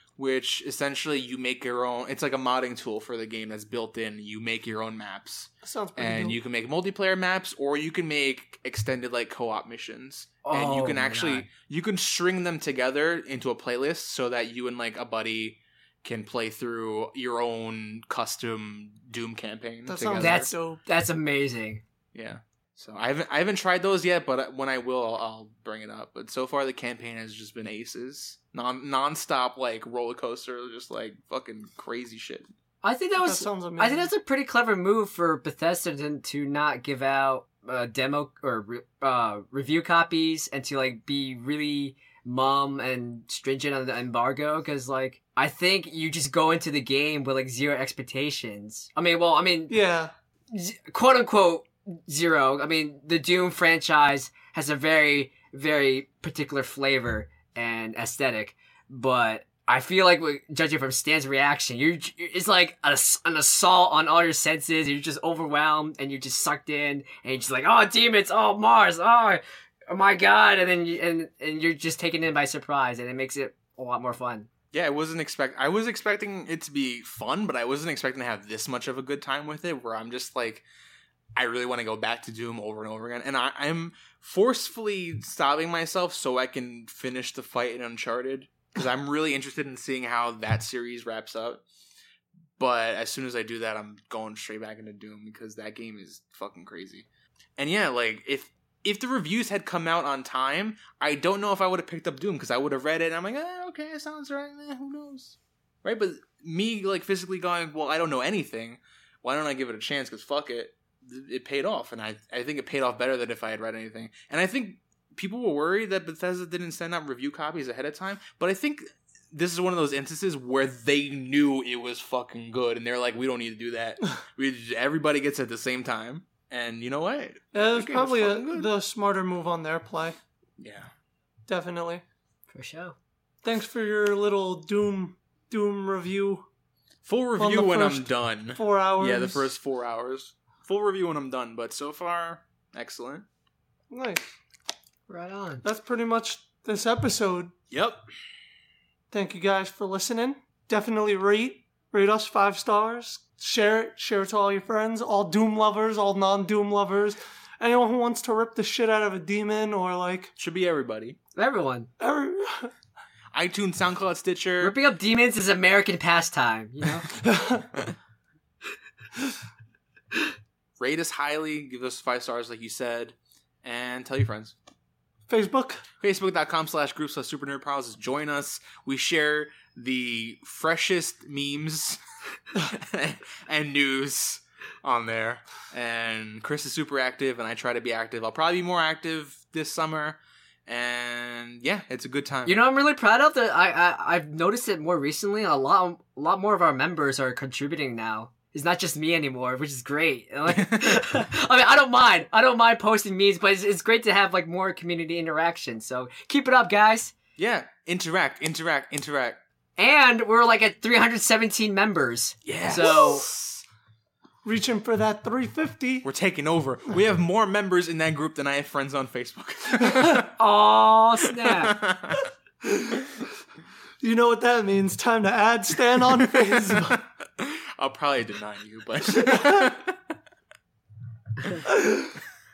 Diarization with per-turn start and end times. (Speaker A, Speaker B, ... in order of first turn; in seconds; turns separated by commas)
Speaker A: 0.2-20.5, Speaker B: 5.6-6.3, Speaker C: 10.4-11.5, Speaker B: 19.9-20.8, Speaker C: 20.2-21.8, Speaker A: 22.1-32.5, Speaker C: 32.8-49.8, Speaker B: 33.2-34.1, Speaker B: 49.7-50.1, Speaker C: 50.5-74.5, Speaker A: 74.7-80.6, Speaker A: 81.3-91.6, Speaker A: 92.6-97.1, Speaker A: 97.6-128.7, Speaker B: 127.5-130.2, Speaker A: 130.6-130.9, Speaker B: 131.5-132.0, Speaker C: 132.5-132.9, Speaker B: 133.4-136.5, Speaker A: 137.0-143.2, Speaker B: 137.4-139.5, Speaker B: 143.9-144.2, Speaker C: 145.1-145.6, Speaker B: 145.6-147.5, Speaker A: 147.7-148.0, Speaker B: 149.1-160.3, Speaker A: 160.4-161.2, Speaker C: 161.3-161.9, Speaker B: 162.0-162.7, Speaker A: 163.3-164.7, Speaker C: 164.6-167.1, Speaker B: 167.2-167.7, Speaker A: 170.8-174.5, Speaker B: 175.3-175.8, Speaker A: 176.0-182.0, Speaker A: 182.5-192.6, Speaker C: 192.4-207.1, Speaker A: 200.5-201.2, Speaker A: 207.4-209.4, Speaker C: 209.8-213.2, Speaker A: 212.4-213.6, Speaker B: 214.4-216.1, Speaker A: 216.0-220.3, Speaker B: 219.9-220.2, Speaker C: 220.3-221.8, Speaker A: 221.2-222.2, Speaker B: 222.6-223.1, Speaker B: 224.0-227.0, Speaker A: 226.3-230.0, Speaker B: 229.2-229.7, Speaker B: 231.6-232.2